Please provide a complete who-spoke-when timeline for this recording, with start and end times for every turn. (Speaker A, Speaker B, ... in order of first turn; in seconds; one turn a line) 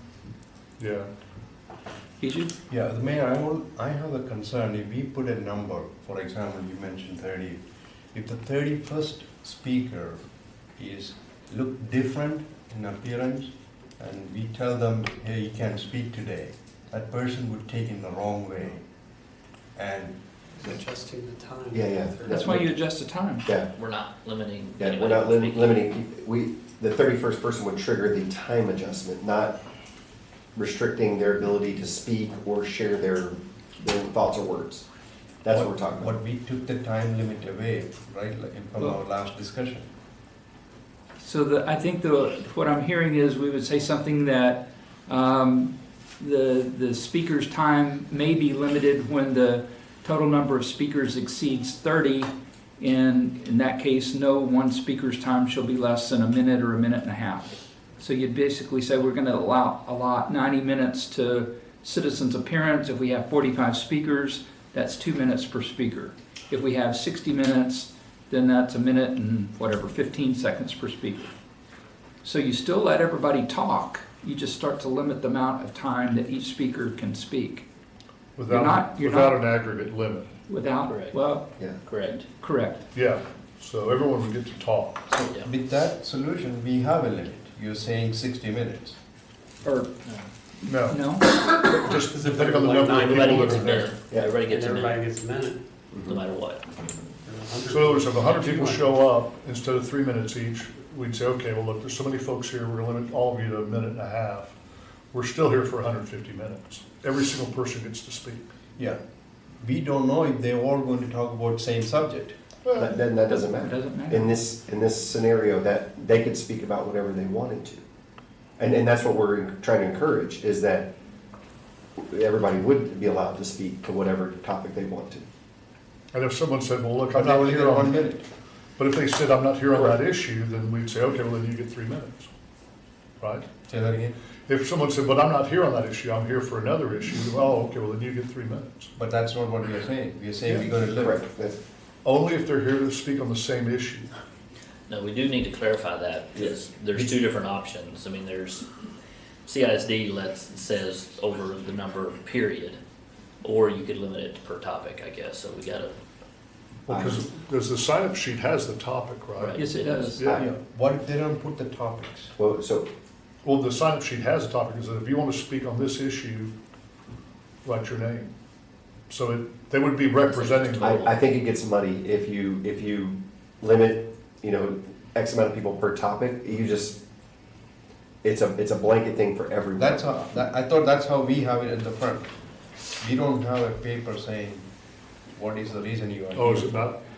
Speaker A: 0.8-1.1
Speaker B: 2.2-2.5
Speaker C: 2.7-18.9
Speaker C: 19.8-20.2
Speaker D: 20.6-22.6
Speaker E: 21.7-22.7
Speaker B: 22.3-23.5
Speaker E: 23.4-23.7
Speaker F: 23.8-25.9
Speaker E: 24.8-29.6
Speaker E: 30.6-34.9
Speaker E: 35.4-36.1
Speaker C: 35.5-39.9
Speaker B: 41.2-71.2
Speaker B: 72.2-77.7
Speaker A: 78.4-80.3
Speaker B: 78.5-79.5
Speaker B: 80.5-81.5
Speaker F: 80.9-81.2
Speaker F: 81.8-82.3
Speaker B: 82.3-82.9
Speaker A: 82.9-85.0
Speaker C: 85.1-89.0
Speaker B: 89.6-89.9
Speaker A: 90.7-94.0
Speaker B: 90.7-91.5
Speaker D: 91.9-93.9
Speaker F: 93.0-95.1
Speaker E: 94.1-94.4
Speaker D: 94.5-95.6
Speaker E: 95.9-96.2
Speaker F: 96.1-96.7
Speaker D: 97.2-98.9
Speaker A: 97.7-104.6
Speaker A: 105.1-108.4
Speaker C: 109.6-112.4
Speaker A: 112.6-113.0
Speaker E: 112.8-117.8
Speaker B: 113.3-114.3
Speaker E: 118.6-120.9
Speaker E: 122.0-125.2
Speaker A: 126.1-128.0
Speaker C: 127.1-128.3
Speaker A: 128.8-132.3
Speaker A: 133.2-133.5
Speaker C: 133.7-134.2
Speaker A: 134.5-138.9
Speaker C: 139.0-141.2
Speaker E: 140.9-141.6
Speaker A: 142.0-144.1
Speaker F: 144.9-148.7
Speaker F: 149.5-152.8
Speaker F: 153.4-156.0
Speaker A: 156.9-159.6
Speaker E: 156.9-157.3
Speaker F: 159.4-160.2
Speaker B: 159.6-160.2
Speaker A: 160.2-160.4
Speaker C: 160.4-162.3
Speaker E: 162.4-162.9
Speaker A: 163.4-166.5
Speaker A: 167.6-168.3
Speaker A: 169.1-170.9
Speaker F: 170.3-171.1
Speaker E: 170.8-177.0
Speaker E: 178.2-180.2
Speaker C: 179.8-186.8
Speaker A: 186.3-187.0